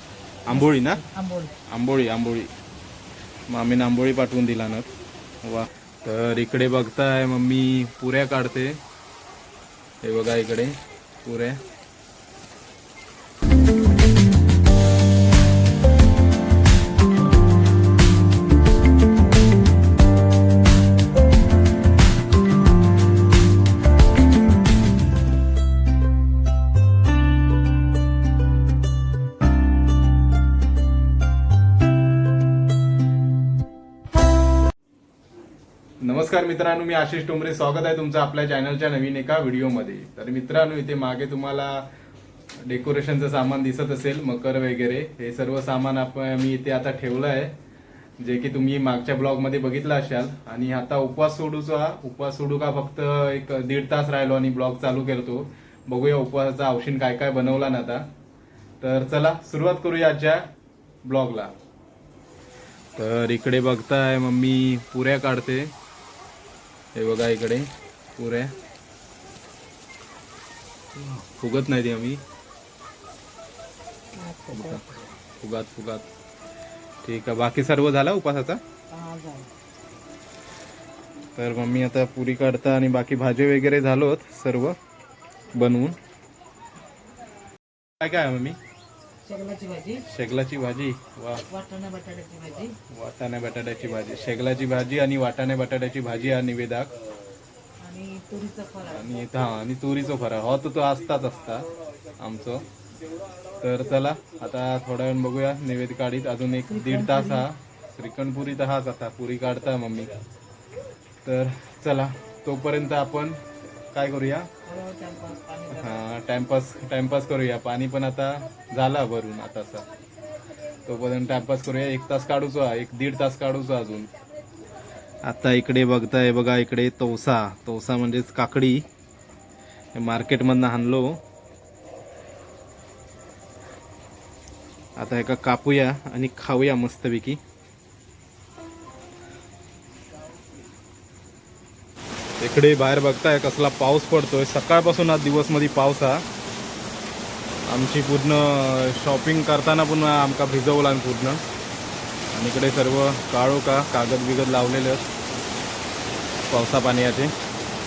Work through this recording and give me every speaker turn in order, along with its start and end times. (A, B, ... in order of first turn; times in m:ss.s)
0:00.4-0:01.0 A
0:00.5-0:01.5 B
0:01.7-0:02.5 A
0:03.5-0:04.9 A
0:05.4-0:08.8 A
0:10.0-0:11.6 A
0:36.0-0:41.9 A
0:42.6-0:47.5 A
0:48.2-0:58.1 A
0:58.8-1:00.4 A
1:01.0-1:01.5 A
1:03.0-1:05.7 A
1:06.9-1:08.5 A
1:11.0-1:12.2 A
1:14.1-1:14.9 B
1:14.5-1:16.0 A
1:17.0-1:18.6 A
1:18.9-1:19.5 B
1:21.4-1:24.8 A
1:25.5-1:26.0 A
1:28.0-1:28.6 A
1:29.2-1:30.0 B
1:30.0-1:31.4 A
1:31.5-1:32.8 B
1:32.9-1:36.9 A
1:37.8-1:39.2 B
1:38.8-1:41.7 A
1:42.2-1:42.6 A
1:43.6-1:50.1 A
1:46.7-1:47.5 B
1:51.2-1:53.4 A
1:53.9-1:54.5 A
1:54.6-1:56.0 B
1:55.7-1:59.9 A
2:00.8-2:04.1 A
2:05.2-2:08.8 A
2:09.9-2:11.2 A
2:15.0-2:17.4 A
2:22.4-2:26.2 A
2:27.7-2:31.4 A
2:32.3-2:35.0 A
2:36.5-2:37.3 A